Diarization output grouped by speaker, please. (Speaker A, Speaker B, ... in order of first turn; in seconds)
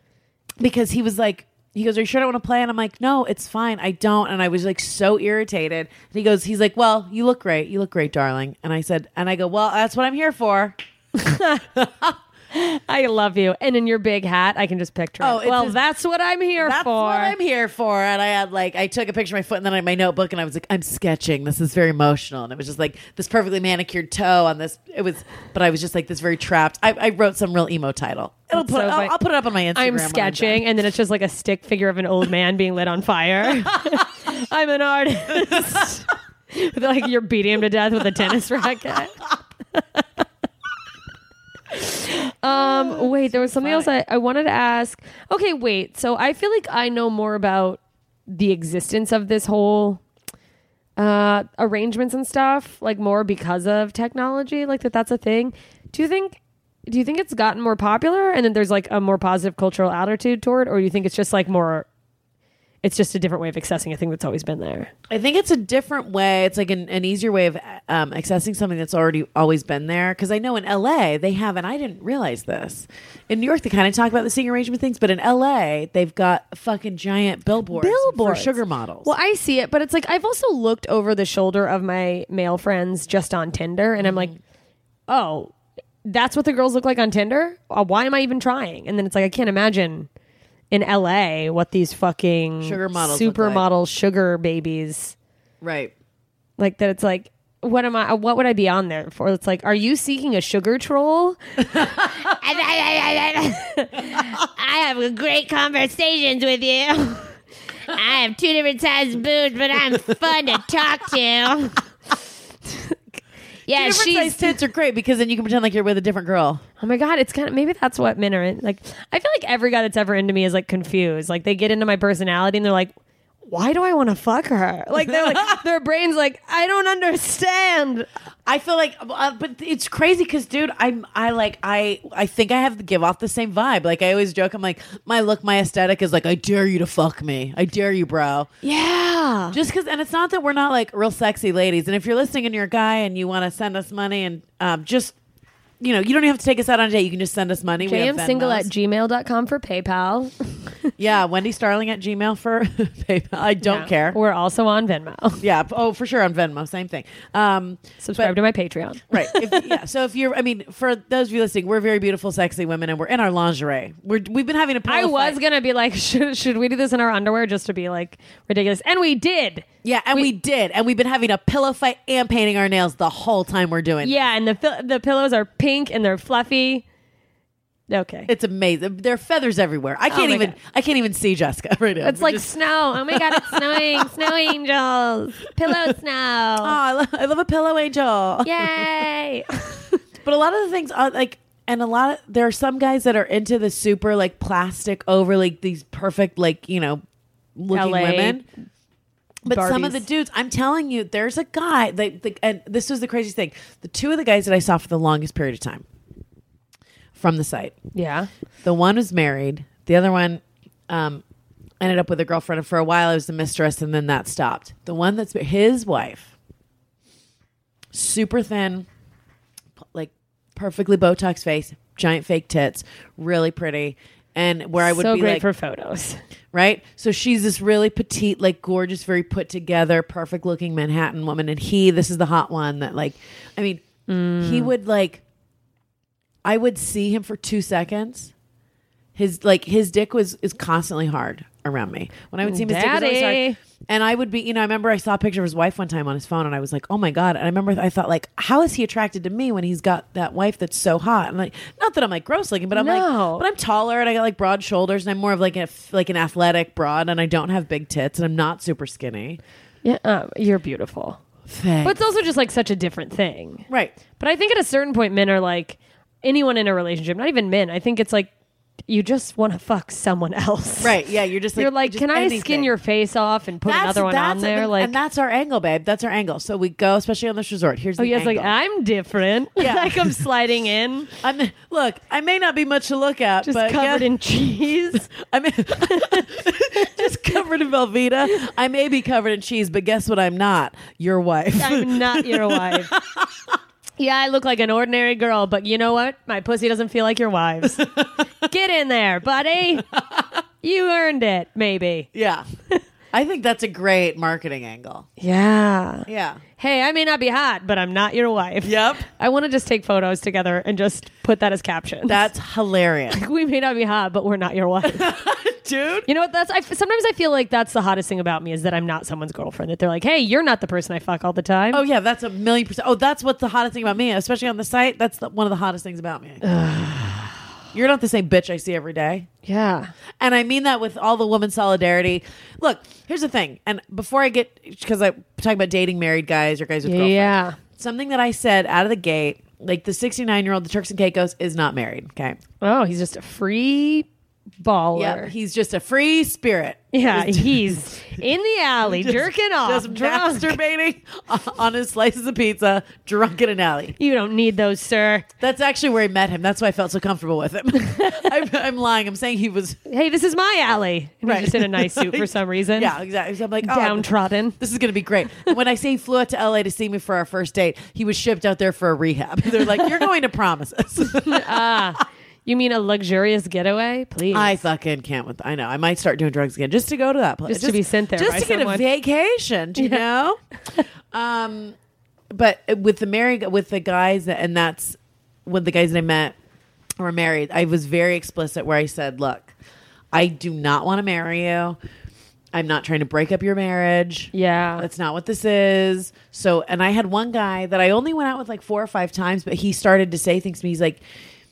Speaker A: 0.6-10.8, 11.7-12.2, 15.2-15.8, 16.6-30.6, 33.6-34.0, 42.5-43.9, 65.1-79.1, 84.0-84.3, 92.6-93.6, 95.6-95.9, 101.7-102.2, 113.7-116.6, 125.1-125.6, 128.4-138.5, 139.5-145.1, 145.8-148.7, 151.0-154.2, 155.4-158.3, 159.1-165.4, 169.8-174.2, 178.3-184.4, 185.7-185.9, 186.6-189.0, 190.2-197.0, 197.6-198.4, 199.4-205.8, 207.1-207.8, 208.6-211.2, 211.8-216.3, 217.9-218.9, 219.8-225.4, 226.5-233.8, 234.4-235.2, 236.4-238.3, 239.1-259.4, 261.5-262.0, 263.7-264.0, 270.8-272.7, 273.6-278.5, 279.6-280.2, 281.2-284.1, 284.9-293.5, 297.6-298.2, 299.8-300.4, 302.1-302.4, 303.1-305.1, 306.1-306.4, 308.6-309.1, 312.1-313.2, 314.8-316.1, 321.7-326.4, 327.7-329.3, 330.2-342.4, 344.9-348.2, 348.8-353.9, 355.4-359.8, 361.2-371.9, 374.3-380.4, 381.1-381.8, 382.3-386.3, 387.0-389.5, 390.1-391.8, 392.5-401.0
Speaker B: 11.1-11.7, 12.5-17.4, 28.5-29.1, 29.7-39.2, 39.7-40.0, 41.7-50.0, 51.0-61.9, 62.8-64.9, 77.7-84.3, 85.1-85.5, 86.0-90.1, 90.7-95.1, 96.6-107.3, 108.9-111.5, 112.7-113.0, 113.7-114.5, 116.8-122.9, 123.4-128.1, 138.6-139.6, 147.8-150.9, 153.6-155.4, 158.0-159.8, 164.9-170.3, 174.0-176.8, 177.9-178.3, 180.1-180.6, 182.0-186.8, 188.4-190.0, 197.7-198.4, 199.4-200.1, 207.9-208.3, 224.8-226.2, 234.1-234.7, 242.4-243.6, 252.7-253.4, 259.8-261.2, 261.8-263.7, 264.2-268.3, 268.9-271.0, 271.6-274.9, 278.0-281.1, 283.4-285.1, 285.8-287.1, 291.6-292.9, 294.0-299.9, 300.6-302.1, 305.2-306.1, 306.6-312.3, 313.1-315.2, 316.1-321.8, 326.4-327.4, 329.4-329.9, 336.8-337.6, 342.6-344.1, 344.6-345.3, 346.9-350.6, 354.0-355.3, 358.0-358.2, 359.9-362.9, 363.6-364.6, 371.2-374.6, 377.5-378.8, 379.8-380.0, 394.3-394.9
Speaker C: 102.5-103.3, 104.6-107.0, 108.0-111.6